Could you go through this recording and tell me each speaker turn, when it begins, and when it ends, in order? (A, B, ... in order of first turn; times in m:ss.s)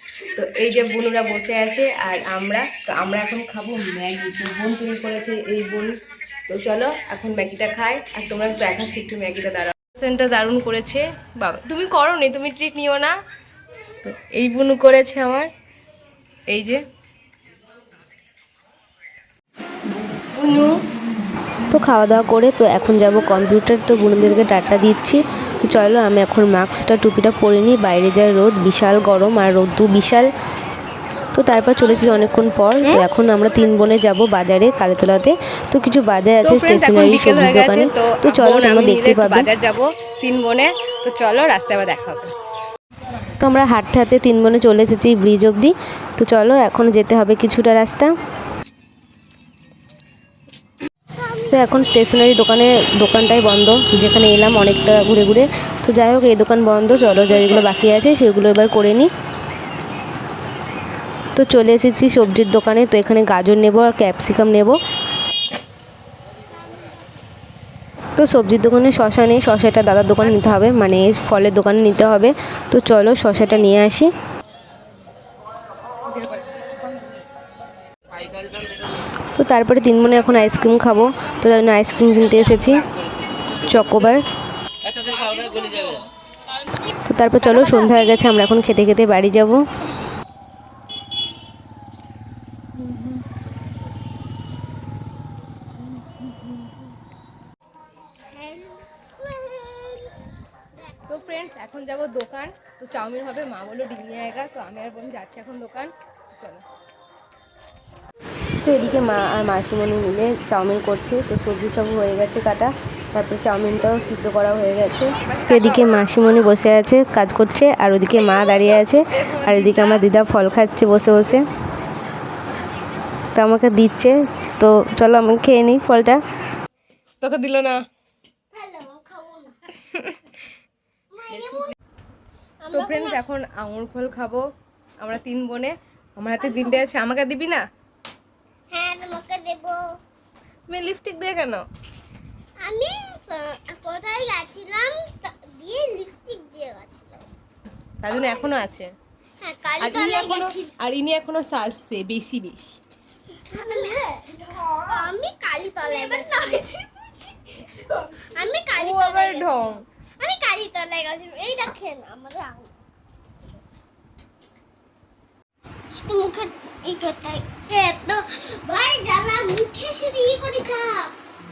0:00.4-0:05.9 A
0:06.5-0:13.1 A
0:14.0-0:15.5 A
0:16.5-0:16.8 A
0:20.4-0:20.8 A
0:21.7-0:30.3 B
0:31.3-0:39.5 B
0:36.4-0:42.3 A
0:43.4-0:48.1 B
0:51.5-0:59.1 B
1:01.4-1:04.8 B
1:08.2-1:14.1 B
1:10.3-1:10.6 A
1:16.0-1:17.0 A
1:19.4-1:22.9 B
1:23.6-1:24.2 B
1:27.1-1:29.6 B
1:38.2-1:40.1 C
1:40.9-1:41.5 C
1:41.1-1:46.6 A
1:48.6-2:01.4 B
1:55.2-1:56.0 A
1:59.0-2:00.1 A
2:03.3-2:06.2 B
2:07.2-2:07.8 A
2:08.5-2:09.6 C
2:09.9-2:10.2 A
2:11.1-2:11.8 C
2:11.3-2:11.7 A
2:12.6-2:13.2 C
2:12.7-2:14.4 A
2:15.0-2:17.6 A
2:16.4-2:16.8 C
2:18.7-2:19.8 C
2:20.7-2:21.6 A
2:22.6-2:27.2 C
2:28.0-2:28.9 A
2:29.4-2:30.7 C
2:29.8-2:32.8 A
2:33.5-2:36.8 C
2:37.8-2:42.7 C
2:38.8-2:39.8 A
2:45.9-2:51.1 C